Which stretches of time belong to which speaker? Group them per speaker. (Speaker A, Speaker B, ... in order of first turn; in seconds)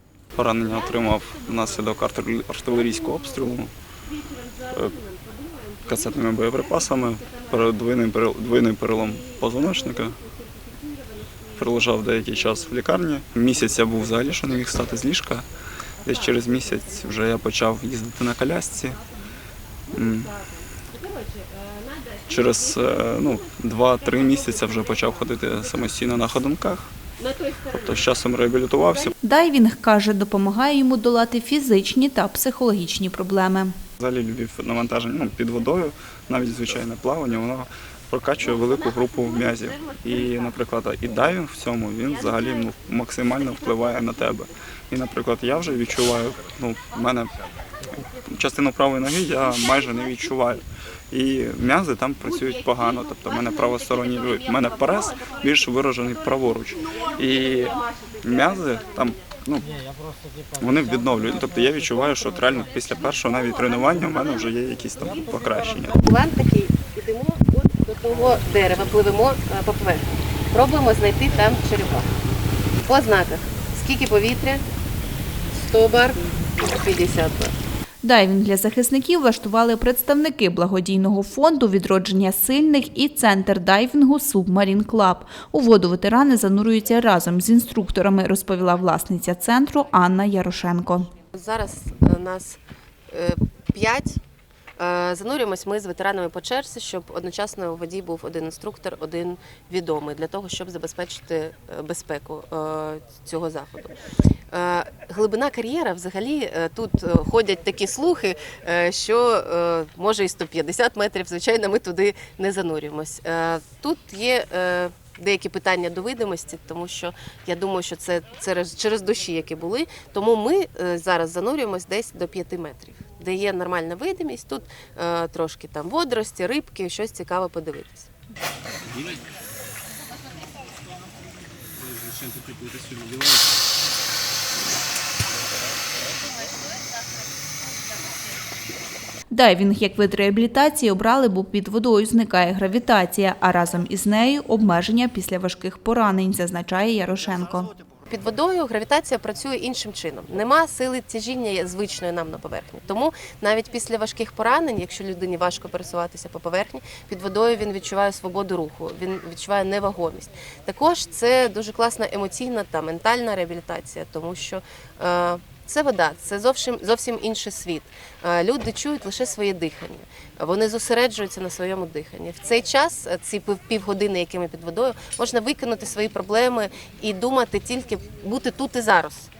Speaker A: 0.3-3.7, 5.8-10.2, 11.6-15.5, 16.0-19.0, 19.9-20.3, 22.3-26.9, 27.7-29.1, 34.0-47.3, 48.3-59.8, 60.6-66.0
Speaker B: 4.2-6.3, 6.8-7.5, 9.6-11.5, 16.0-17.4, 19.9-25.9, 27.2-28.0, 54.0-55.4, 56.9-58.7, 65.8-72.1, 72.8-74.6, 75.5-77.5, 91.3-92.6, 93.1-94.2, 94.8-104.0, 104.5-128.1, 148.1-179.3
Speaker C: 29.2-33.7, 78.0-91.1, 139.3-147.7